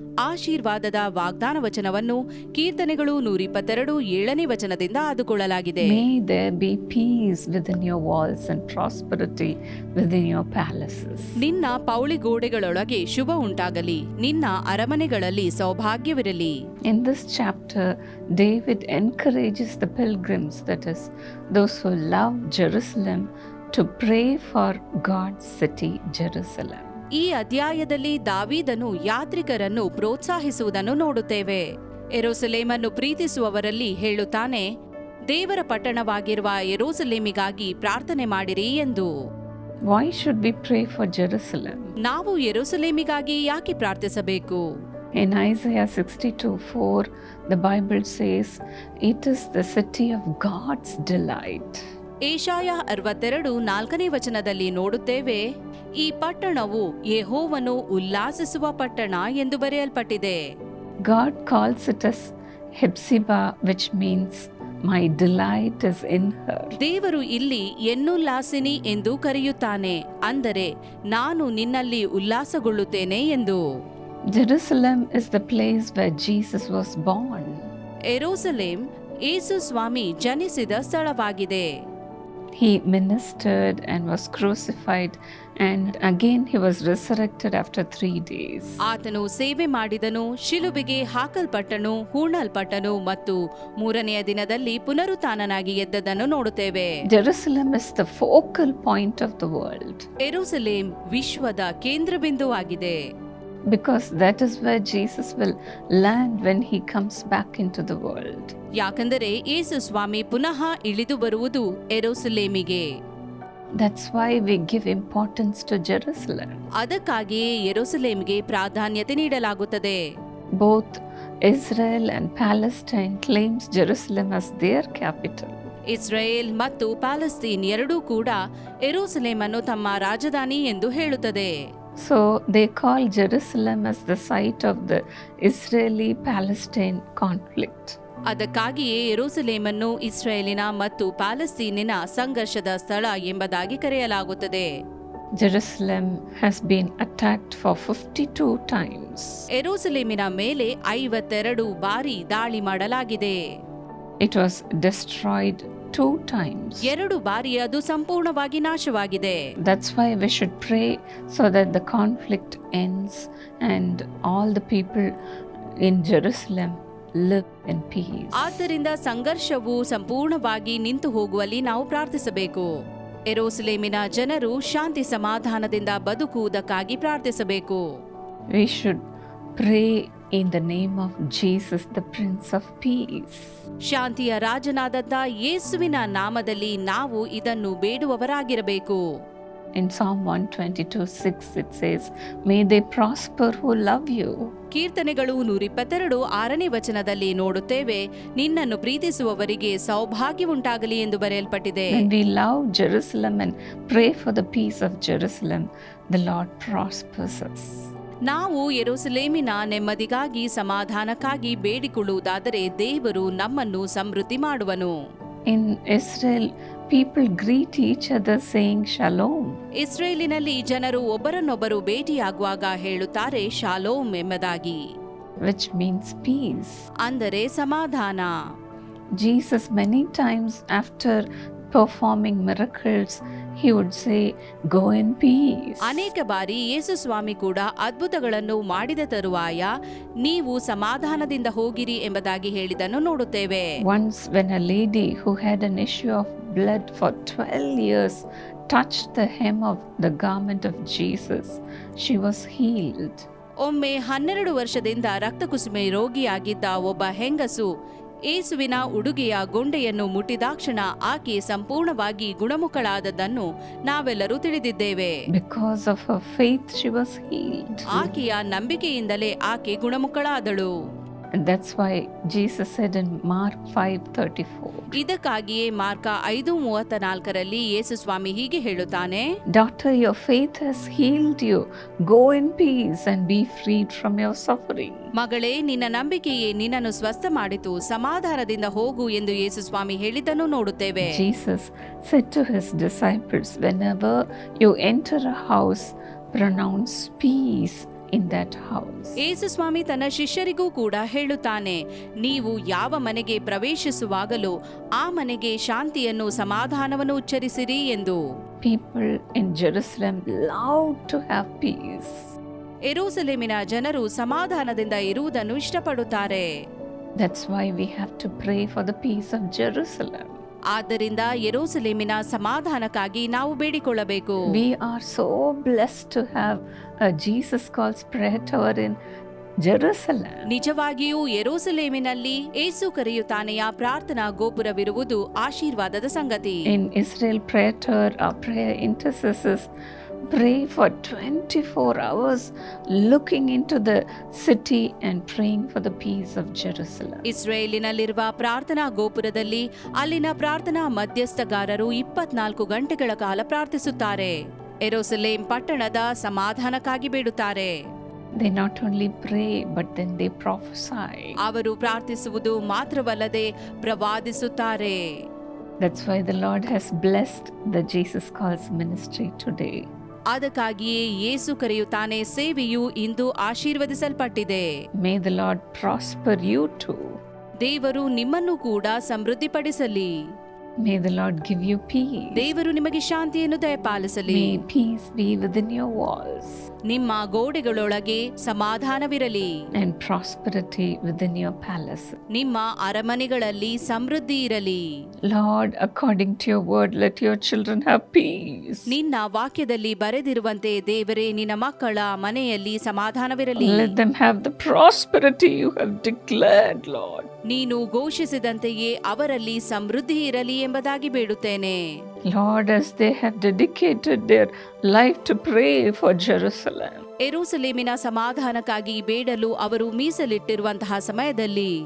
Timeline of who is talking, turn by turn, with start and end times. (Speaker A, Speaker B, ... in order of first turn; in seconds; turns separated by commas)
Speaker A: 0.2-6.0, Speaker B: 5.8-11.4, Speaker A: 11.4-16.6, Speaker B: 16.9-27.0, Speaker A: 27.2-31.6, Speaker A: 32.2-34.7, Speaker A: 35.3-39.1, Speaker B: 39.9-41.9, Speaker A: 42.1-44.6, Speaker B: 45.2-51.9, Speaker A: 52.3-55.4, Speaker A: 56.0-60.4, Speaker B: 61.0-66.8, Speaker A: 66.8-73.6, Speaker B: 74.3-77.7, Speaker A: 78.1-81.7, Speaker B: 82.6-88.8, Speaker A: 88.9-96.9, Speaker B: 97.0-100.1, Speaker A: 100.2-103.0, Speaker B: 103.7-108.6, Speaker A: 108.8-112.9, Speaker B: 113.8-116.7, Speaker A: 116.8-120.0, Speaker B: 120.6-125.7, Speaker A: 125.9-131.5, Speaker B: 132.0-138.0, Speaker A: 138.3-144.7, Speaker B: 145.4-149.5, Speaker A: 149.6-153.4, Speaker B: 154.2-156.9, Speaker A: 156.8-159.4, Speaker B: 159.6-165.2, Speaker B: 165.8-168.7, Speaker A: 168.4-172.7, Speaker A: 173.3-177.8, Speaker B: 178.5-179.0, Speaker B: 179.6-183.6, Speaker A: 183.9-189.0, Speaker B: 189.8-194.5, Speaker A: 194.7-202.1, Speaker B: 201.9-207.9, Speaker A: 208.3-214.9, Speaker B: 215.5-219.4, Speaker A: 219.8-224.8, Speaker B: 225.4-226.9, Speaker A: 227.0-228.3, Speaker B: 229.1-236.1, Speaker A: 235.8-239.7, Speaker A: 240.2-243.7, Speaker B: 243.8-253.3, Speaker A: 253.6-257.7, Speaker A: 258.3-265.2, Speaker B: 265.3-268.1, Speaker A: 267.9-270.7, Speaker B: 271.4-274.9, Speaker A: 274.9-279.2, Speaker B: 279.5-285.1, Speaker A: 285.2-291.1, Speaker B: 291.0-299.2, Speaker A: 299.2-308.2, Speaker B: 308.6-312.3, Speaker A: 312.9-316.5, Speaker B: 317.2-320.4, Speaker A: 320.7-324.4, Speaker B: 324.5-329.0, Speaker B: 329.6-330.5, Speaker A: 330.5-336.6, Speaker B: 336.7-339.7, Speaker B: 340.3-347.2, Speaker A: 347.3-357.7, Speaker B: 358.4-361.4, Speaker A: 361.4-365.0, Speaker B: 365.8-369.9, Speaker A: 370.3-374.7, Speaker B: 375.0-377.2, Speaker A: 377.6-380.1, Speaker B: 380.8-382.5, Speaker A: 382.4-384.6, Speaker B: 384.3-386.7, Speaker A: 386.9-389.5, Speaker B: 389.8-392.2, Speaker A: 392.3-394.8, Speaker B: 395.3-398.9, Speaker A: 398.9-403.9, Speaker B: 403.6-407.3, Speaker A: 407.5-411.8, Speaker B: 412.3-417.0, Speaker A: 417.2-421.7